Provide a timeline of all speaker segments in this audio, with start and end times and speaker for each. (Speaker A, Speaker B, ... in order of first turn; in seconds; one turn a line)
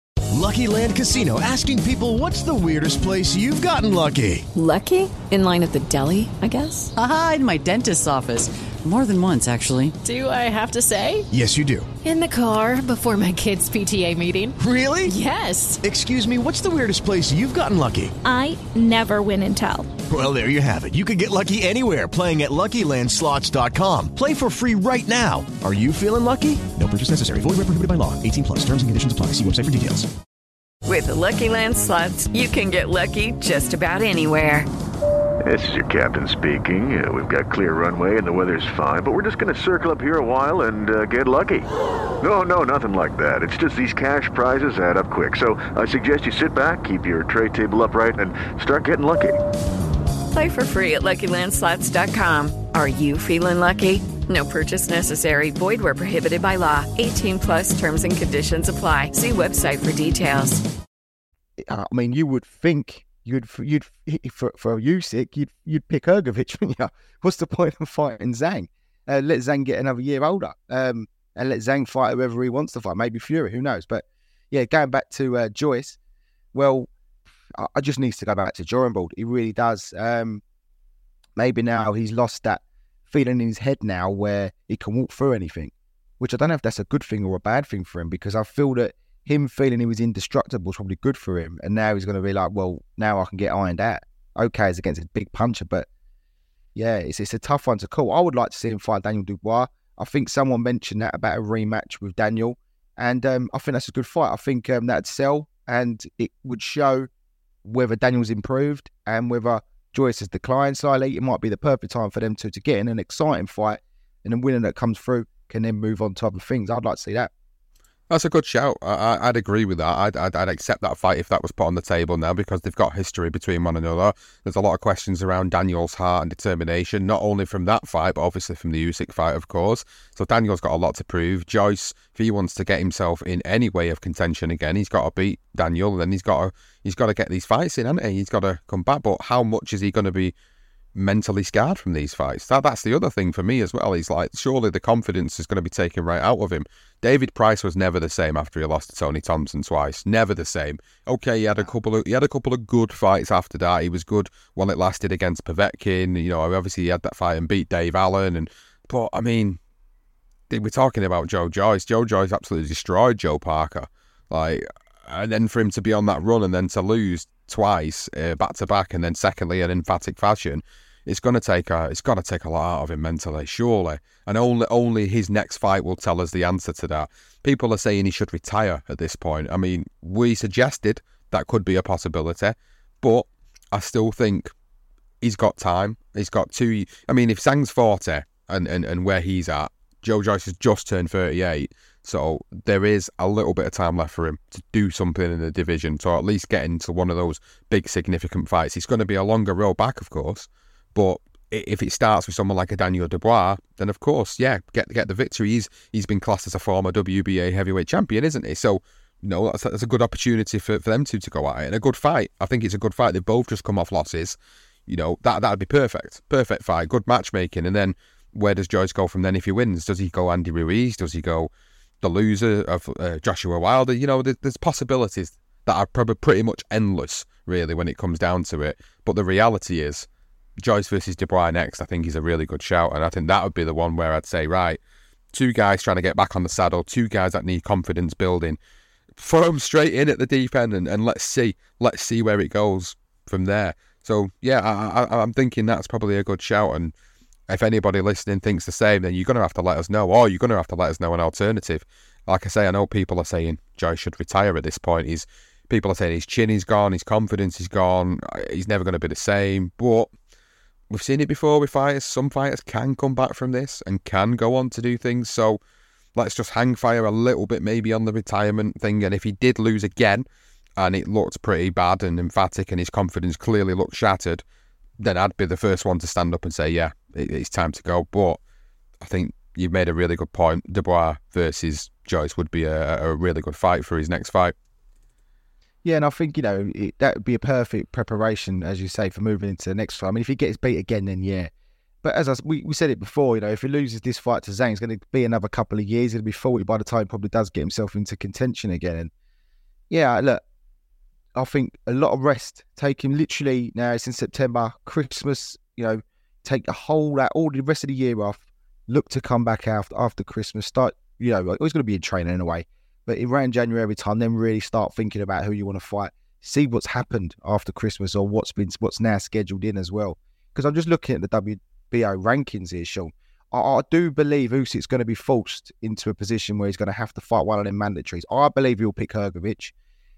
Speaker A: 0.3-4.5
Speaker B: 4.5-6.9
Speaker C: 7.0-10.0
Speaker D: 10.1-11.2
Speaker E: 10.2-11.1
Speaker A: 11.3-11.9
Speaker D: 12.0-14.6
Speaker A: 14.6-15.1
Speaker D: 15.1-15.8
Speaker A: 15.8-18.2
Speaker E: 18.2-19.9
Speaker A: 20.1-30.1
Speaker B: 30.9-34.7
Speaker F: 35.5-41.7
Speaker F: 42.2-49.4
Speaker B: 50.3-60.6
Speaker G: 61.6-76.0
Speaker G: 76.5-76.9
Speaker G: 77.5-80.4
Speaker G: 81.4-95.9
Speaker G: 96.8-107.1
Speaker G: 107.6-117.3
Speaker H: 118.1-140.3
Speaker H: 140.9-159.6
Speaker H: 160.5-184.5
Speaker H: 185.2-214.4
Speaker H: 214.9-221.5
Speaker H: 222.0-230.1
Speaker H: 230.6-234.8
Speaker H: 235.3-238.6
Speaker H: 239.2-246.9
Speaker H: 247.5-260.1
Speaker H: 260.9-265.6
Speaker H: 266.2-270.3
Speaker H: 270.8-274.4
Speaker H: 275.0-278.4
Speaker H: 279.0-284.5
Speaker G: 285.8-291.5
Speaker G: 292.0-299.1
Speaker G: 299.9-300.4
Speaker G: 301.4-329.7